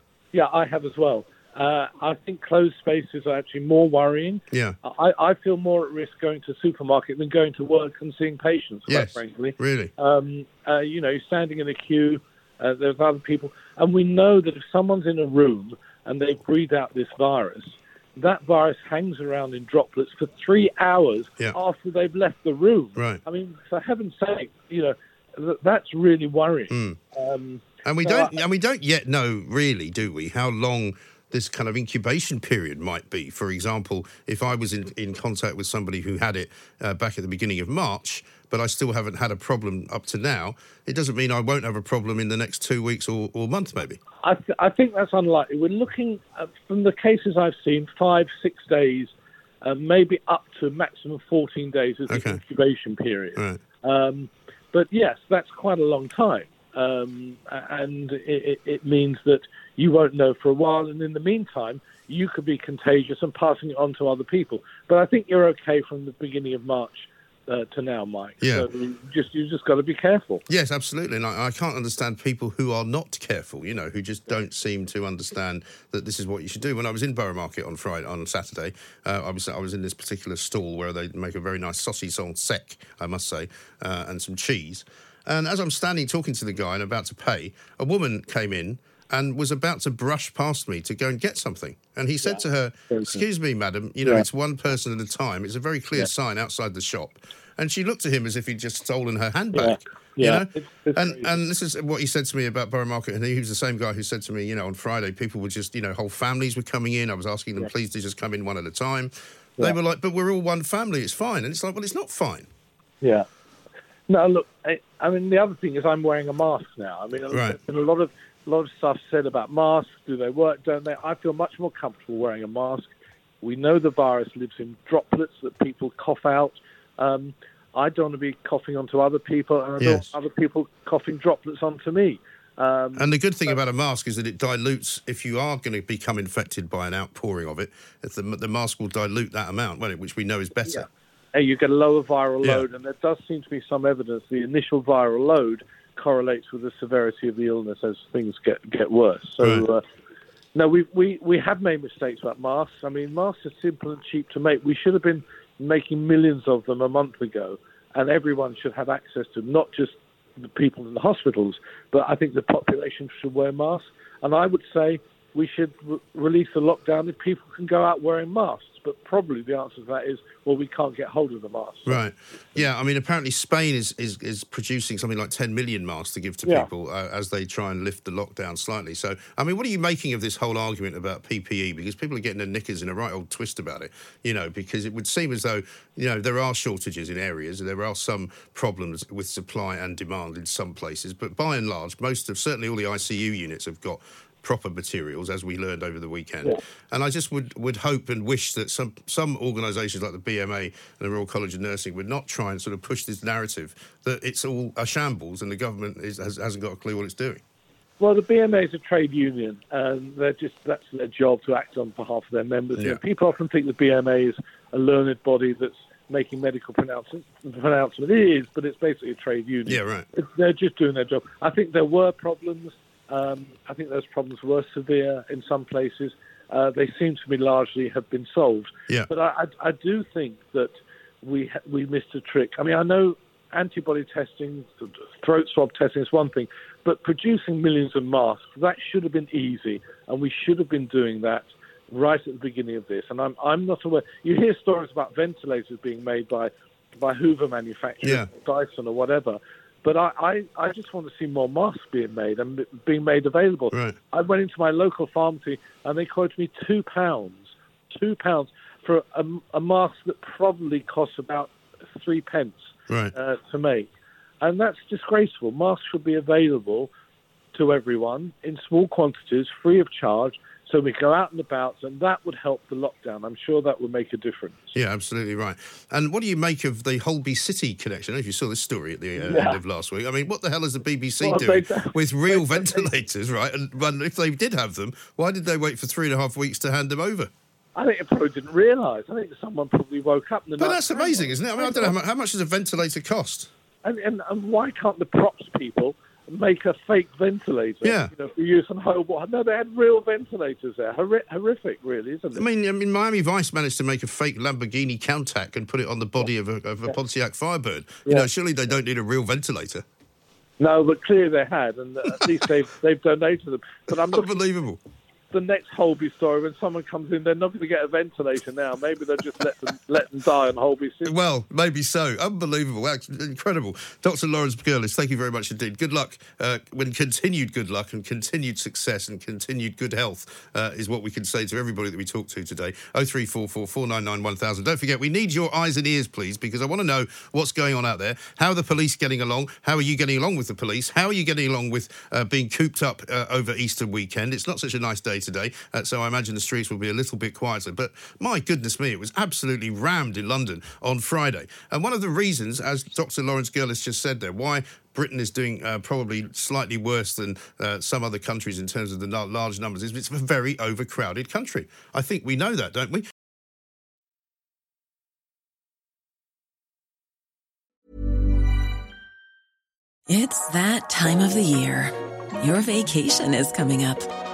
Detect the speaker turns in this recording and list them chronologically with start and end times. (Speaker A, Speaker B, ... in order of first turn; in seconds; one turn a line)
Speaker A: 0.3-28.3
Speaker B: 4.5-4.8
Speaker B: 8.9-9.9
Speaker B: 23.0-23.2
Speaker B: 26.7-27.0
Speaker B: 27.9-44.0
Speaker A: 44.2-49.1
Speaker A: 49.6-70.4
Speaker B: 52.1-52.4
Speaker B: 68.4-68.7
Speaker B: 70.5-112.5
Speaker A: 92.2-93.2
Speaker A: 99.5-101.3
Speaker A: 114.1-122.9
Speaker B: 117.3-117.6
Speaker A: 123.4-133.6
Speaker B: 129.8-130.1
Speaker B: 133.0-140.9
Speaker A: 140.7-149.8
Speaker B: 149.4-149.7
Speaker A: 150.6-172.0
Speaker B: 171.9-207.4
Speaker A: 208.0-263.9
Speaker B: 212.8-213.0
Speaker B: 219.7-220.1
Speaker B: 248.0-248.3
Speaker B: 253.7-254.0
Speaker A: 264.4-266.9
Speaker A: 267.5-274.8
Speaker B: 274.8-287.3
Speaker A: 279.2-279.6
Speaker A: 281.2-282.9
Speaker A: 287.8-291.9
Speaker B: 290.6-293.5
Speaker A: 293.8-302.4
Speaker B: 297.8-298.1
Speaker B: 302.4-309.9
Speaker A: 310.6-314.3
Speaker B: 314.1-314.8
Speaker A: 315.3-321.1
Speaker B: 321.1-363.1
Speaker C: 370.1-374.1